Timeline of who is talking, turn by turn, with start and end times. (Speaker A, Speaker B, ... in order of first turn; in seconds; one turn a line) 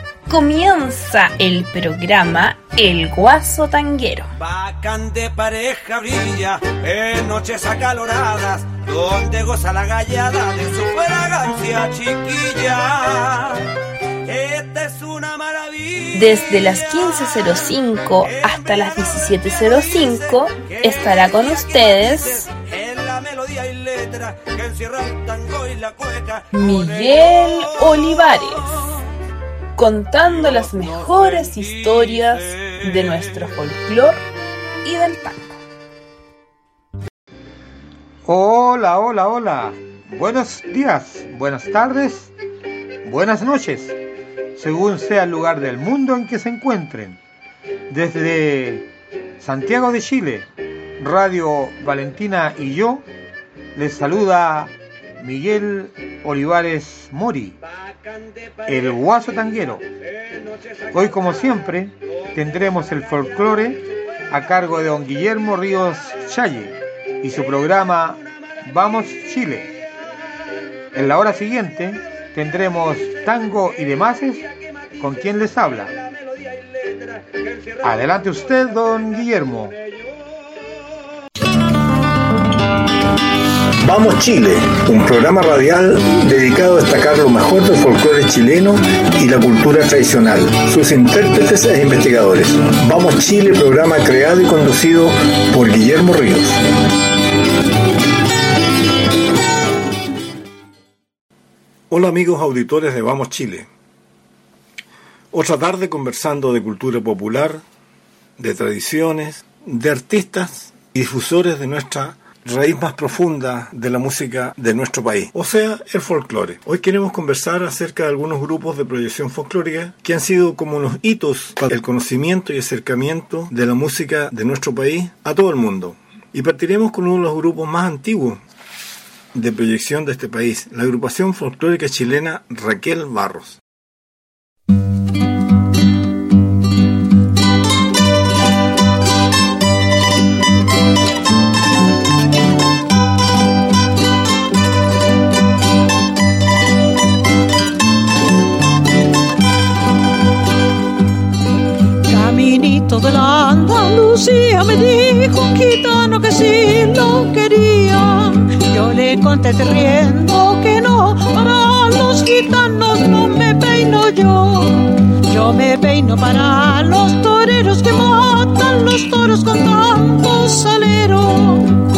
Speaker A: 0.3-4.3
Speaker B: 4.4-13.7
Speaker B: 14.3-16.9
Speaker A: 16.1-22.4
Speaker B: 18.2-28.1
Speaker A: 26.5-28.7
Speaker A: 29.8-34.2
Speaker B: 30.8-31.3
Speaker A: 34.8-35.6
Speaker C: 38.3-42.3
Speaker C: 43.0-44.0
Speaker C: 44.5-47.2
Speaker C: 47.9-48.9
Speaker C: 49.4-50.5
Speaker C: 51.0-53.1
Speaker C: 53.8-57.6
Speaker C: 58.6-59.9
Speaker C: 60.9-69.8
Speaker C: 70.9-74.5
Speaker C: 75.0-75.9
Speaker C: 77.8-79.8
Speaker D: 83.8-96.6
Speaker D: 101.9-103.7
Speaker D: 105.3-107.6
Speaker D: 108.4-128.4
Speaker D: 129.3-133.6
Speaker E: 152.1-171.8